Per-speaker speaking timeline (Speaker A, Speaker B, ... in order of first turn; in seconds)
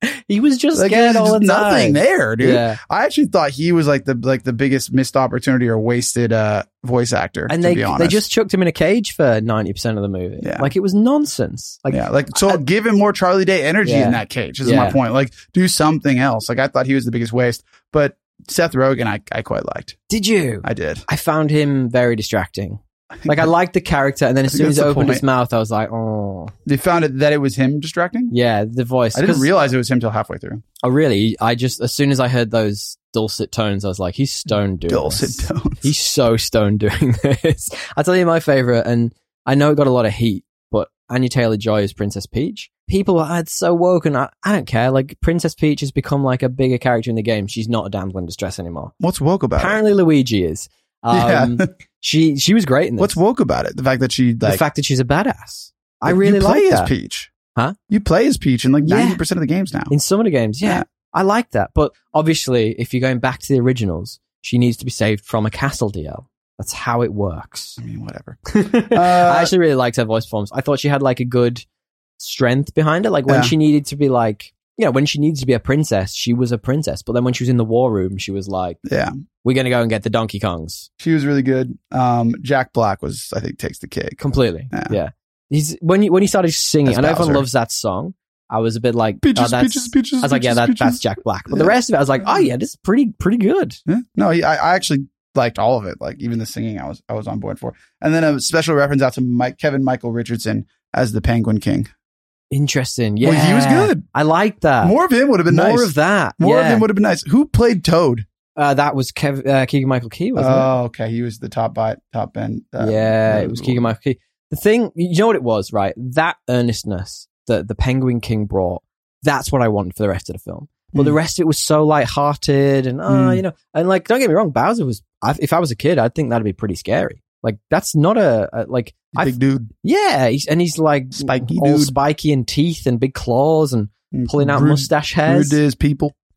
Speaker A: 0.3-2.8, 7.5-12.6, 13.8-15.0, 20.1-26.5, 28.3-29.5, 30.8-48.9, 49.6-53.2, 54.4-56.9, 58.8-59.2, 59.9-67.8, 68.5-71.7, 72.2-78.8, 79.4-80.9, 84.2-93.8, 102.5-105.0, 105.5-106.9, 108.6-110.7, 112.8-135.6
Speaker B: 0.7-8.2, 10.4-10.7, 11.9-20.0, 20.6-21.1, 23.2-23.5, 24.5-25.2, 26.7-28.3, 29.1-30.6, 34.9-35.9, 49.0-49.8, 51.1-51.7, 53.0-54.6, 56.1-57.3, 57.9-59.9, 67.8-69.5, 73.3-73.5, 78.9-79.1, 81.0-84.2, 84.7-85.0, 86.8-87.5, 89.2-92.5, 93.9-101.9, 103.2-104.0, 104.8-108.3, 110.4-113.9, 120.9-121.2, 123.1-123.4, 129.1-129.7, 131.1-132.0, 134.1-136.2